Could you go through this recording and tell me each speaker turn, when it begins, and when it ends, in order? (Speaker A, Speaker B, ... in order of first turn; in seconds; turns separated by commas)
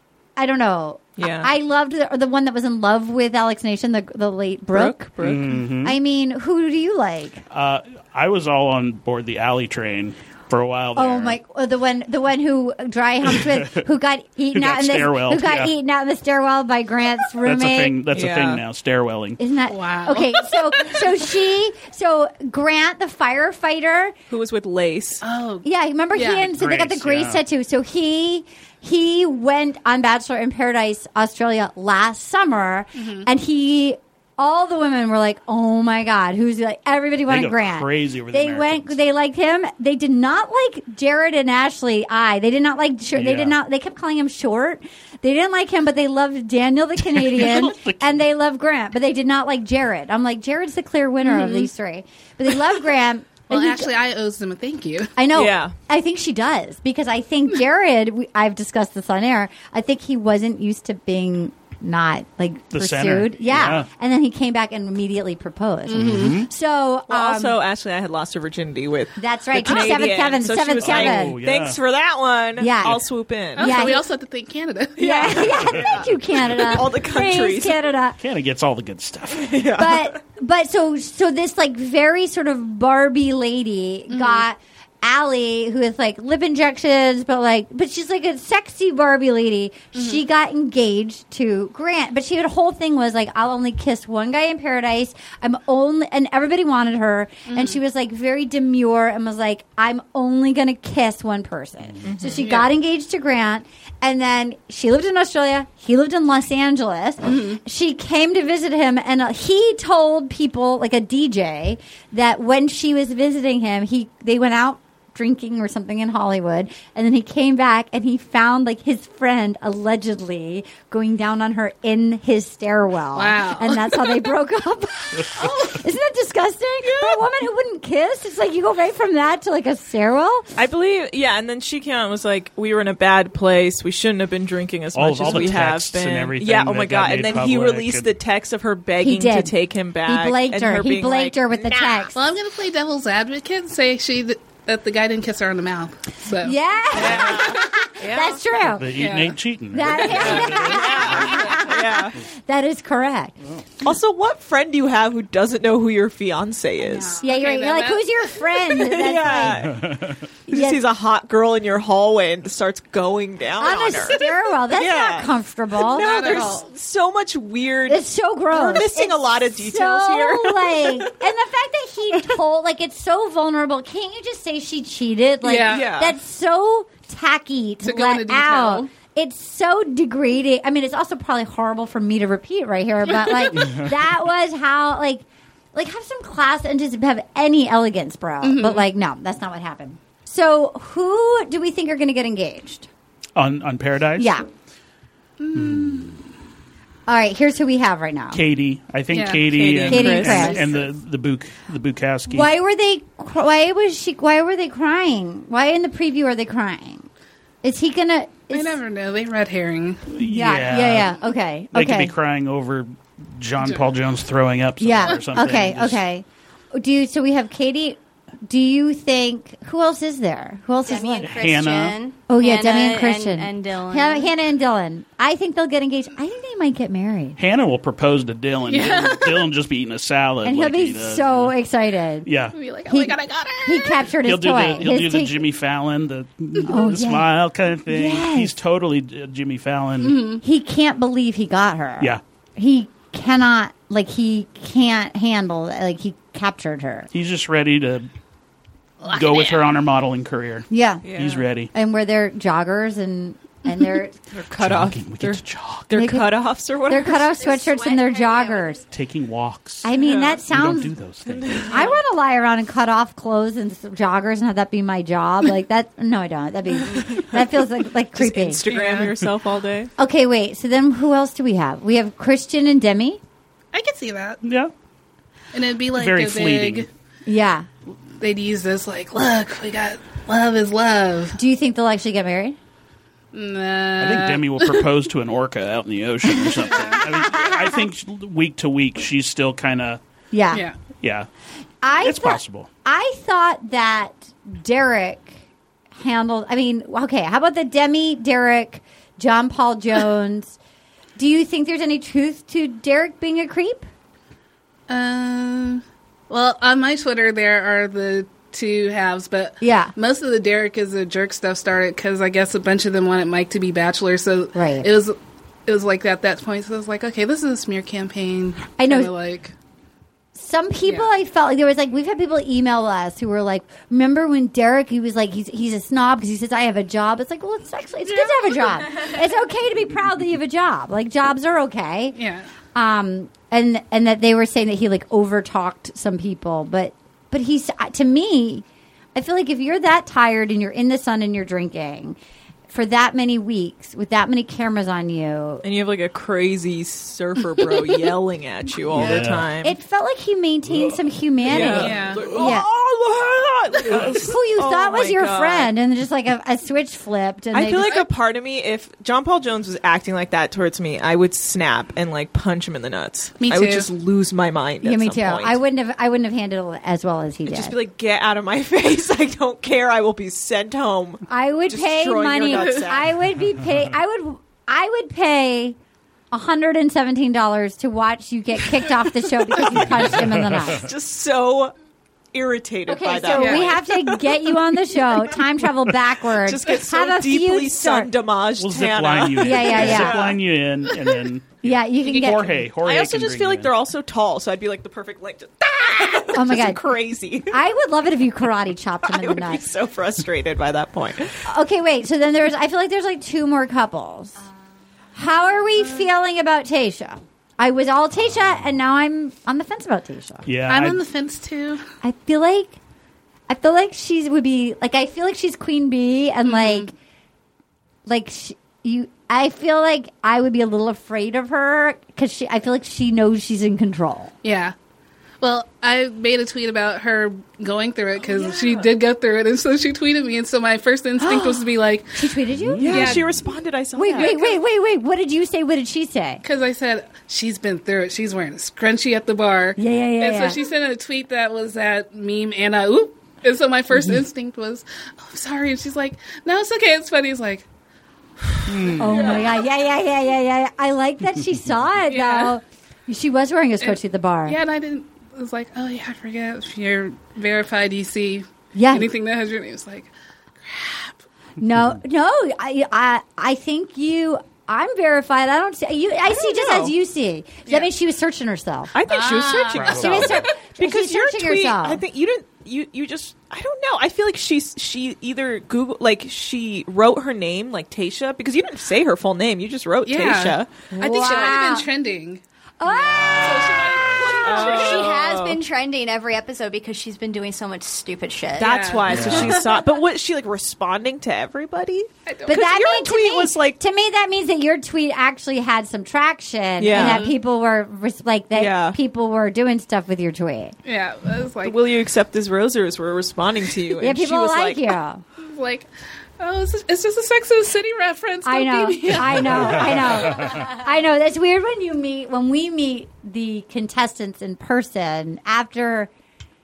Speaker A: 0.3-5.1, Speaker B: 1.2-1.5, Speaker B: 4.7-5.5, Speaker C: 5.2-6.0, Speaker A: 5.8-7.4, Speaker C: 7.5-11.4, Speaker A: 10.9-17.9, Speaker C: 13.2-13.8, Speaker C: 14.5-15.7, Speaker C: 17.4-19.4, Speaker B: 18.1-18.6, Speaker A: 19.4-24.1, Speaker D: 19.7-20.5, Speaker B: 24.3-25.2, Speaker D: 25.2-26.5, Speaker A: 25.6-53.9, Speaker C: 26.5-27.4, Speaker D: 33.0-33.3, Speaker C: 37.3-39.0, Speaker C: 43.1-43.6, Speaker C: 47.0-48.2, Speaker D: 51.2-51.7, Speaker D: 53.5-55.1, Speaker A: 55.1-67.6, Speaker B: 55.3-55.7, Speaker C: 62.7-63.9, Speaker D: 65.9-66.4, Speaker C: 66.0-66.5, Speaker B: 67.1-73.9, Speaker A: 69.2-71.4, Speaker C: 69.7-69.9, Speaker C: 70.8-71.8, Speaker A: 72.6-73.0, Speaker A: 73.5-74.0, Speaker D: 73.5-75.5, Speaker B: 75.0-77.8, Speaker A: 75.0-78.2, Speaker C: 75.7-76.1, Speaker C: 78.2-79.6, Speaker B: 79.4-80.2, Speaker A: 79.8-130.5, Speaker D: 84.1-84.4, Speaker D: 89.9-90.2, Speaker D: 97.5-97.8, Speaker B: 102.0-102.4, Speaker D: 102.3-102.7, Speaker D: 107.2-107.6, Speaker D: 123.1-124.2, Speaker D: 125.4-125.7, Speaker B: 126.8-127.2, Speaker B: 130.6-142.1, Speaker C: 134.9-138.1, Speaker A: 139.0-142.2, Speaker D: 142.1-147.6, Speaker A: 146.4-149.0, Speaker B: 146.9-148.4, Speaker C: 148.6-151.6, Speaker D: 149.0-149.3, Speaker A: 149.7-153.3, Speaker B: 150.0-152.2, Speaker B: 153.8-157.2, Speaker D: 156.8-158.4, Speaker A: 157.2-159.7, Speaker B: 158.7-159.8, Speaker C: 159.6-160.2, Speaker B: 160.5-171.1, Speaker A: 160.5-160.8, Speaker A: 163.6-166.6, Speaker D: 165.9-166.7, Speaker A: 167.9-192.9, Speaker D: 175.4-175.9, Speaker B: 175.7-176.1, Speaker D: 177.8-178.9, Speaker D: 183.1-183.5, Speaker C: 183.6-183.9, Speaker D: 188.4-188.8, Speaker C: 193.3-194.3, Speaker A: 194.2-194.5, Speaker D: 195.4-196.2, Speaker C: 195.5-196.2, Speaker A: 197.1-198.4, Speaker C: 198.3-202.5, Speaker D: 199.1-199.5, Speaker B: 199.5-200.6, Speaker A: 199.9-200.6, Speaker D: 200.2-200.9, Speaker A: 202.3-207.1, Speaker A: 207.6-208.8, Speaker D: 208.5-210.1, Speaker C: 210.1-211.2, Speaker A: 210.2-212.1, Speaker C: 211.7-216.0, Speaker A: 214.8-221.3, Speaker E: 220.8-224.3, Speaker C: 221.2-222.0, Speaker A: 222.3-227.4, Speaker C: 227.4-231.5, Speaker D: 228.7-229.5, Speaker A: 230.4-232.3, Speaker C: 232.2-232.6, Speaker D: 232.5-234.1, Speaker A: 232.9-235.4, Speaker C: 234.2-240.2, Speaker A: 236.7-237.3, Speaker A: 237.9-238.5, Speaker D: 240.0-240.4, Speaker A: 240.4-247.1, Speaker C: 247.1-248.1, Speaker D: 249.0-249.6, Speaker C: 249.1-251.7, Speaker A: 250.7-251.1, Speaker B: 251.0-251.4, Speaker A: 251.7-254.2, Speaker B: 254.3-257.4, Speaker C: 254.6-255.9, Speaker A: 255.9-256.3, Speaker A: 256.8-258.8, Speaker E: 257.4-258.8, Speaker C: 258.9-259.9, Speaker A: 259.8-260.9, Speaker B: 260.0-260.3, Speaker C: 260.4-261.7, Speaker B: 261.3-261.9, Speaker A: 261.7-268.7, Speaker B: 268.1-269.9, Speaker D: 268.6-269.1, Speaker A: 270.0-273.2, Speaker D: 273.7-274.4, Speaker C: 274.4-274.7, Speaker D: 275.5-276.9, Speaker C: 275.9-276.9, Speaker A: 277.2-277.6, Speaker D: 278.2-281.4, Speaker A: 281.4-282.6, Speaker D: 283.3-284.9, Speaker C: 284.0-290.0, Speaker D: 286.5-287.0, Speaker A: 287.0-287.8, Speaker A: 290.3-290.6, Speaker C: 291.0-291.3, Speaker A: 291.8-295.4, Speaker C: 291.9-292.7, Speaker A: 295.9-300.6, Speaker A: 301.2-303.9, Speaker D: 304.9-319.5, Speaker A: 309.6-309.9, Speaker A: 314.5-314.9, Speaker A: 318.8-319.1, Speaker A: 320.3-332.2, Speaker D: 332.2-332.5, Speaker A: 332.7-338.6, Speaker A: 339.1-342.2, Speaker A: 342.7-345.6, Speaker B: 345.6-349.8, Speaker C: 348.9-349.5, Speaker A: 349.6-352.7, Speaker B: 351.4-355.7, Speaker D: 351.6-352.4, Speaker A: 354.1-358.1, Speaker B: 357.5-365.6, Speaker D: 363.4-363.9, Speaker A: 364.8-367.7, Speaker B: 367.4-373.2, Speaker A: 371.3-375.8, Speaker A: 376.3-380.9, Speaker C: 379.7-380.8, Speaker B: 380.2-381.7, Speaker B: 382.3-384.2, Speaker A: 382.9-388.1, Speaker D: 383.3-383.7, Speaker B: 386.4-390.4, Speaker C: 388.6-393.7, Speaker A: 389.4-390.2, Speaker A: 391.6-392.6, Speaker D: 392.1-392.4, Speaker B: 392.8-397.6, Speaker A: 396.3-396.8, Speaker A: 397.5-399.6, Speaker B: 399.0-401.4, Speaker A: 401.4-404.4, Speaker A: 405.1-410.5, Speaker C: 410.4-411.0, Speaker D: 410.7-411.8, Speaker A: 412.0-412.8, Speaker A: 413.5-416.9, Speaker D: 416.4-416.9, Speaker A: 418.1-424.3, Speaker D: 424.4-424.7, Speaker D: 425.4-432.3, Speaker B: 428.2-428.8, Speaker A: 431.2-431.5, Speaker A: 432.1-433.1, Speaker C: 432.5-433.4, Speaker B: 432.8-434.4, Speaker D: 432.9-433.3, Speaker A: 433.9-436.4, Speaker D: 434.2-434.6, Speaker D: 436.4-447.6, Speaker A: 439.8-440.6, Speaker D: 448.5-449.4, Speaker C: 448.7-449.4, Speaker A: 449.0-454.6, Speaker D: 452.1-452.6, Speaker D: 453.8-460.1, Speaker A: 458.7-459.1, Speaker D: 460.6-461.2, Speaker A: 461.6-468.9, Speaker B: 466.3-466.9, Speaker B: 468.9-480.7, Speaker D: 469.1-470.5, Speaker C: 469.7-470.5, Speaker A: 469.9-472.0, Speaker D: 480.0-482.4, Speaker A: 480.9-481.9, Speaker A: 482.8-483.4, Speaker C: 482.9-484.3, Speaker D: 483.0-485.1, Speaker E: 483.2-488.8, Speaker B: 483.4-485.6, Speaker B: 488.6-493.8, Speaker D: 488.6-489.7, Speaker C: 489.1-489.6, Speaker D: 492.3-492.6, Speaker A: 492.5-500.7, Speaker B: 496.8-497.3, Speaker D: 496.9-497.3, Speaker B: 498.5-499.0, Speaker D: 500.8-501.8, Speaker B: 501.6-504.9, Speaker A: 504.0-505.2, Speaker D: 505.4-505.9, Speaker D: 506.4-510.4, Speaker A: 508.4-516.1, Speaker C: 509.6-510.6